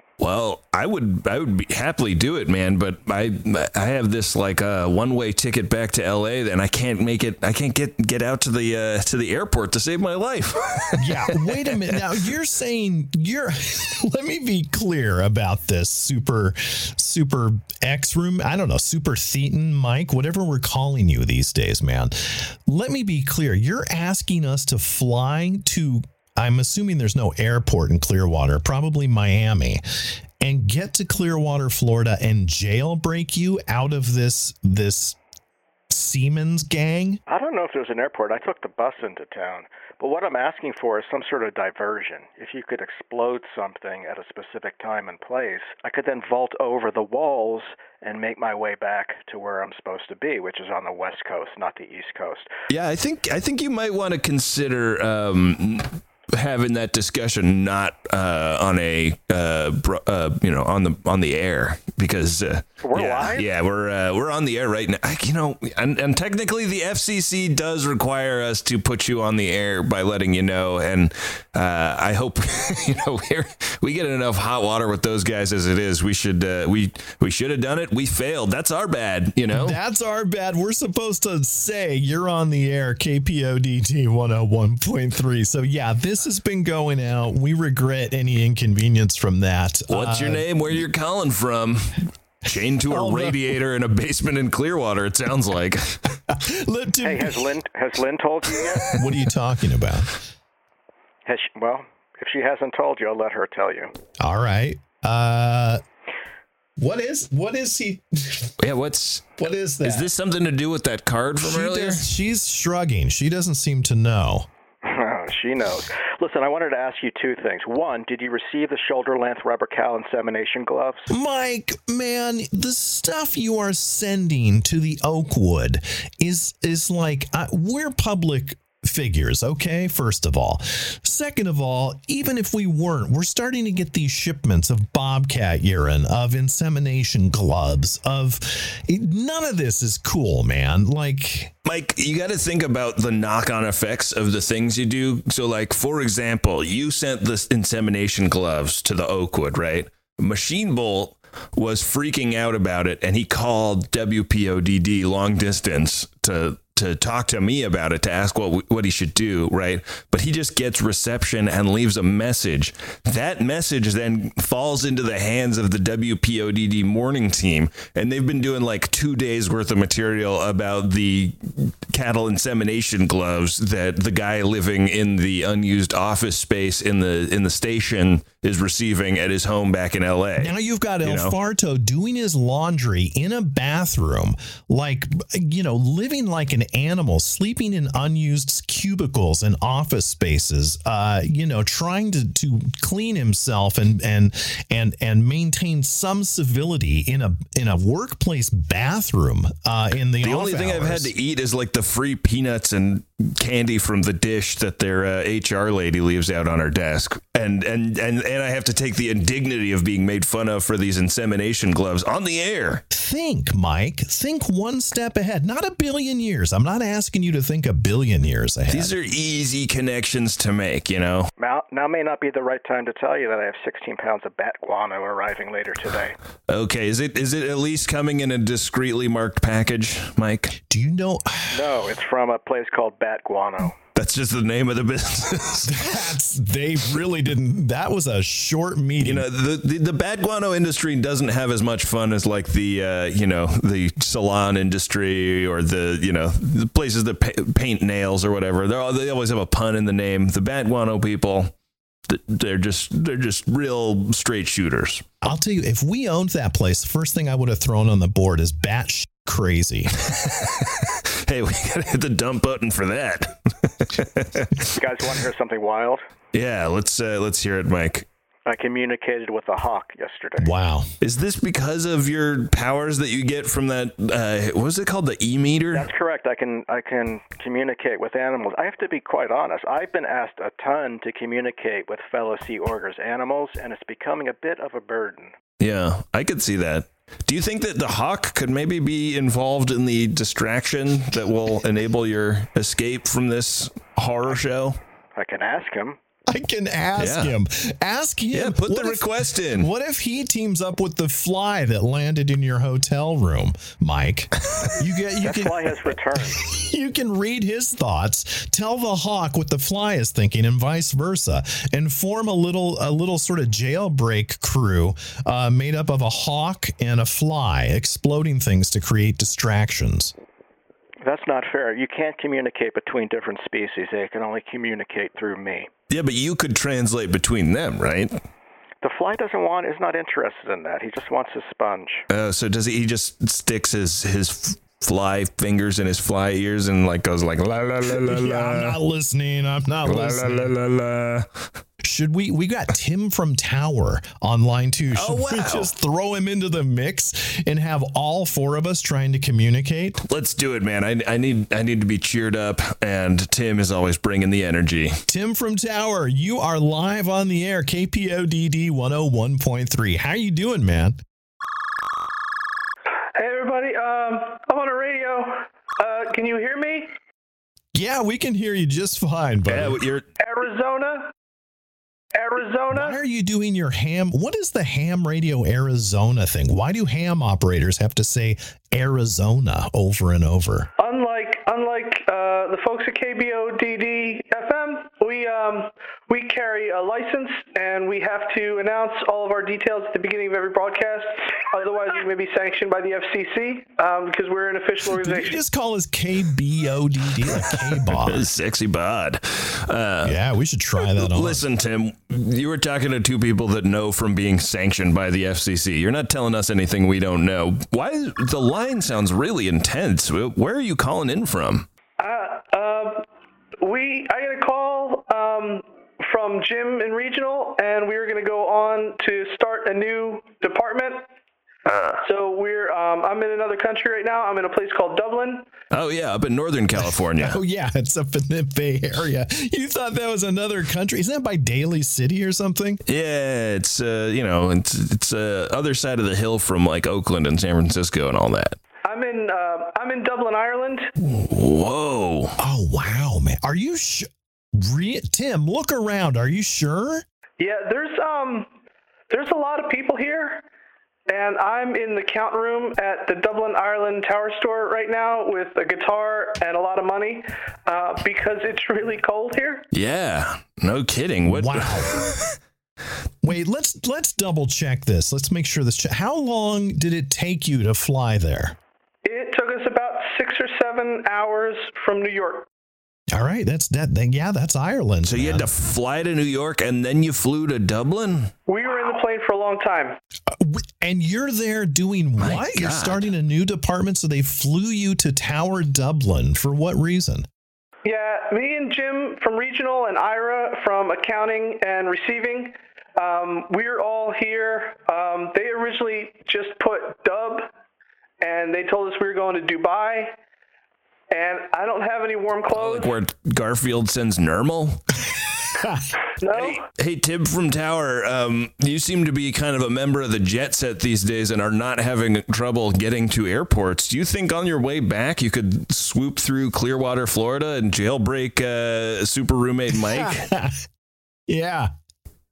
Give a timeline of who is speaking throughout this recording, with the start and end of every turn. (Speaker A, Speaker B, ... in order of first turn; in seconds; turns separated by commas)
Speaker A: 0.2-11.9, Speaker B: 11.0-35.2, Speaker B: 35.9-37.2, Speaker C: 37.3-52.5, Speaker A: 52.7-79.8, Speaker C: 62.8-63.5, Speaker B: 79.5-90.8, Speaker A: 89.9-96.0, Speaker B: 92.9-93.5, Speaker B: 96.3-97.5, Speaker C: 97.0-99.0, Speaker B: 98.9-100.2, Speaker C: 101.2-103.9, Speaker B: 104.2-105.8, Speaker B: 106.8-108.5, Speaker A: 108.6-109.3, Speaker B: 109.4-110.1, Speaker A: 109.8-112.0, Speaker B: 111.4-114.5, Speaker C: 114.8-121.1, Speaker B: 121.1-141.5, Speaker A: 141.6-181.3, Speaker B: 180.4-201.1, Speaker A: 200.2-212.8, Speaker B: 212.9-218.9, Speaker A: 218.7-221.3, Speaker C: 221.4-226.2, Speaker A: 226.5-230.6, Speaker B: 230.7-231.8, Speaker C: 231.5-233.8, Speaker A: 233.9-236.0, Speaker B: 235.7-239.3, Speaker A: 239.0-251.5, Speaker A: 252.1-255.0, Speaker B: 255.2-259.9, Speaker A: 260.1-264.7, Speaker C: 264.6-266.0, Speaker A: 266.3-268.1, Speaker C: 268.4-270.5, Speaker B: 270.4-270.9, Speaker A: 271.0-275.9, Speaker C: 275.7-285.3, Speaker A: 285.6-294.8, Speaker C: 295.1-296.0, Speaker B: 296.3-320.1, Speaker A: 297.0-297.3, Speaker A: 298.3-299.7, Speaker C: 305.2-306.4, Speaker C: 321.0-325.7, Speaker A: 325.9-328.2, Speaker C: 328.8-332.0, Speaker A: 332.1-338.8, Speaker B: 337.9-340.5, Speaker A: 339.8-341.3, Speaker B: 341.8-350.0, Speaker A: 344.9-345.7, Speaker A: 350.0-355.0, Speaker B: 355.1-361.0, Speaker D: 363.1-366.9, Speaker B: 367.7-369.8, Speaker A: 369.4-370.0, Speaker D: 370.2-371.1, Speaker D: 372.1-373.0, Speaker B: 372.7-380.7, Speaker D: 380.8-395.4, Speaker B: 394.8-398.2, Speaker A: 397.9-400.1, Speaker B: 400.0-401.4, Speaker A: 400.9-411.6, Speaker D: 412.0-413.0, Speaker D: 413.6-421.0, Speaker A: 421.6-422.0, Speaker D: 422.0-425.5, Speaker A: 425.7-427.4, Speaker B: 426.8-432.8, Speaker A: 432.9-438.6, Speaker D: 438.9-440.9, Speaker A: 441.0-442.4, Speaker B: 442.4-447.0, Speaker D: 447.4-448.5, Speaker D: 449.1-450.4, Speaker D: 451.1-459.6, Speaker A: 459.7-462.2, Speaker B: 461.2-462.1, Speaker B: 463.2-468.6, Speaker D: 469.0-472.5, Speaker B: 473.1-475.5, Speaker A: 475.0-478.3, Speaker D: 478.5-480.0, Speaker B: 480.3-487.3, Speaker A: 482.2-483.1, Speaker D: 487.8-497.5, Speaker D: 498.2-500.1, Speaker D: 501.1-502.9, Speaker A: 502.5-504.8, Speaker B: 505.6-505.9, Speaker D: 506.2-506.6, Speaker A: 506.3-520.3, Speaker B: 519.7-520.6, Speaker B: 521.3-521.7